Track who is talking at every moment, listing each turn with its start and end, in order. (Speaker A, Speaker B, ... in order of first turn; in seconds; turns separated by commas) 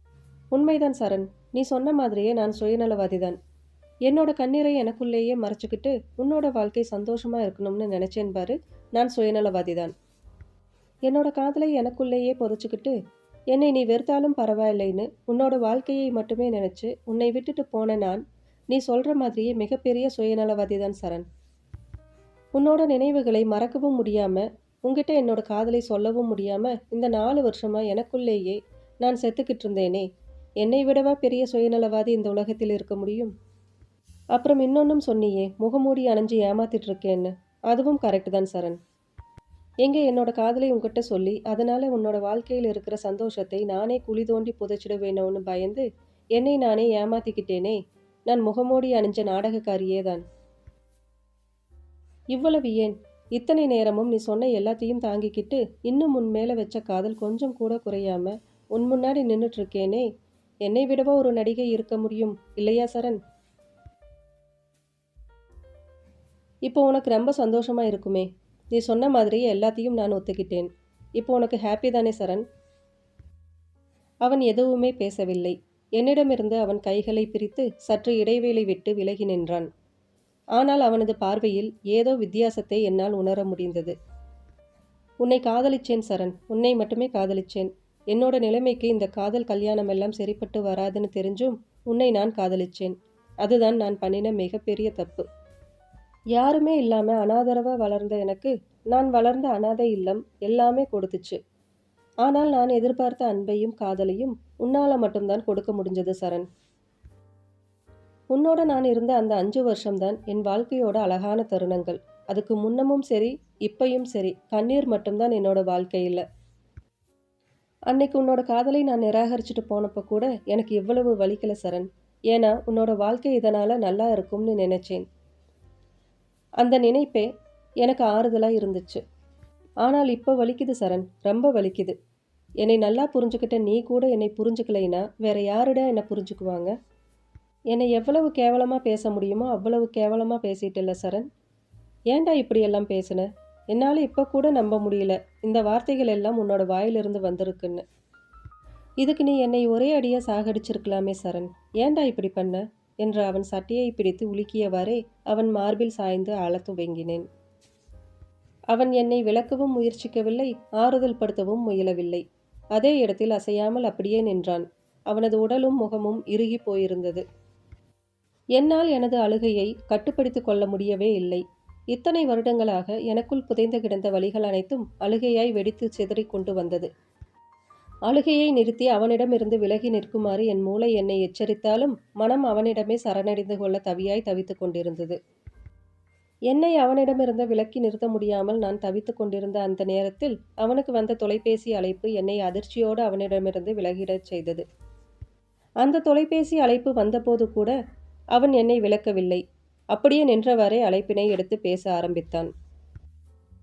Speaker A: 0.5-3.4, Speaker A: 4.0-9.9, Speaker A: 11.1-12.9, Speaker A: 13.5-21.2, Speaker A: 22.6-30.1, Speaker A: 30.6-33.3, Speaker A: 34.3-38.8, Speaker A: 39.8-50.2, Speaker A: 52.3-60.1, Speaker A: 60.6-63.2, Speaker A: 66.7-72.4, Speaker A: 74.2-79.7, Speaker A: 80.5-83.9, Speaker A: 85.2-95.2, Speaker A: 96.3-101.4, Speaker A: 102.2-106.5, Speaker A: 108.3-116.2, Speaker A: 117.9-125.0, Speaker A: 126.6-127.3, Speaker A: 127.8-129.0, Speaker A: 129.8-131.9, Speaker A: 132.6-136.7, Speaker A: 137.7-141.3, Speaker A: 142.1-147.8, Speaker A: 149.0-157.3, Speaker A: 158.7-167.2, Speaker A: 168.6-176.9, Speaker A: 178.1-185.2, Speaker A: 186.5-194.6, Speaker A: 195.8-197.7, Speaker A: 198.3-199.4, Speaker A: 199.9-202.5